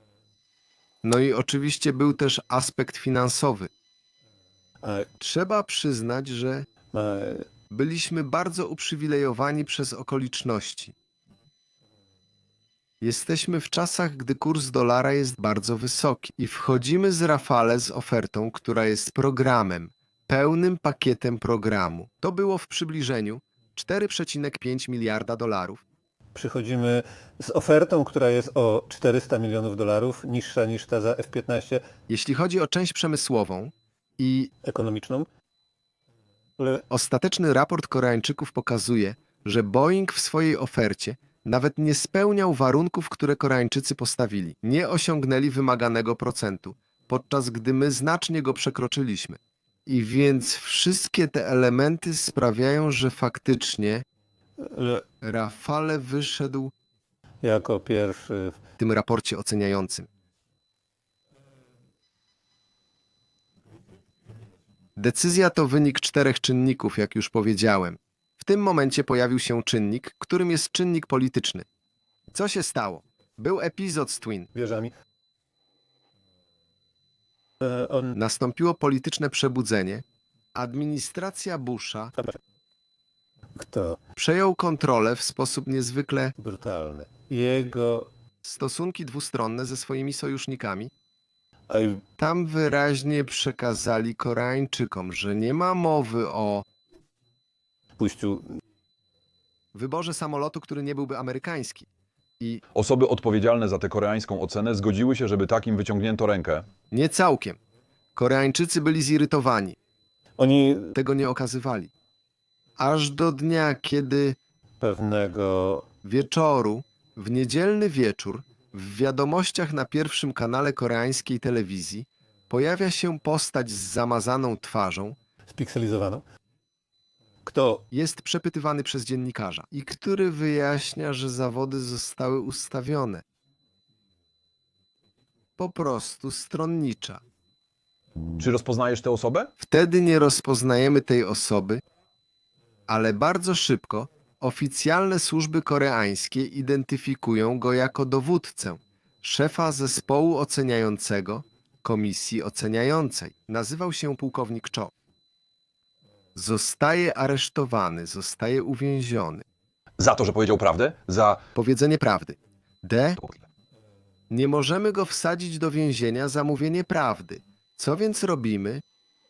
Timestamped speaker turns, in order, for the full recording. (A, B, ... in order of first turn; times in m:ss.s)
0:01.0-0:03.7 A
0:04.8-0:05.1 B
0:05.2-0:06.8 A
0:06.8-0:07.5 B
0:07.7-0:10.9 A
0:13.0-0:25.8 A
0:26.3-0:31.8 B
0:32.1-0:34.5 A
0:34.6-0:35.3 B
0:36.6-0:36.8 B
0:36.9-0:54.0 A
0:54.6-0:55.1 B
0:55.2-0:56.7 A
0:57.4-0:58.6 B
0:58.8-1:00.1 A
1:05.0-1:11.6 A
1:12.3-1:14.5 A
1:14.5-1:14.9 B
1:17.6-1:18.2 B
1:18.2-1:20.0 A
1:20.6-1:22.1 A
1:23.6-1:24.0 B
1:24.2-1:26.4 A
1:26.4-1:28.1 B
1:28.4-1:30.9 A
1:31.7-1:32.0 B
1:32.2-1:36.6 A
1:38.0-1:38.6 B
1:39.8-1:41.9 A
1:42.8-1:46.7 C
1:46.9-1:47.6 A
1:48.2-1:49.8 A
1:50.4-1:51.0 B
1:51.0-1:51.9 A
1:52.8-1:54.4 A
1:54.8-1:55.9 B
1:56.0-2:05.2 A
2:05.5-2:06.2 B
2:07.5-2:07.8 B
2:07.9-2:13.2 A
2:15.6-2:17.2 A
2:18.3-2:19.5 C
2:19.6-2:21.8 A
2:22.9-2:34.9 A
2:36.4-2:39.4 A
2:40.0-2:41.4 C
2:41.6-2:43.2 A
2:44.3-2:48.8 A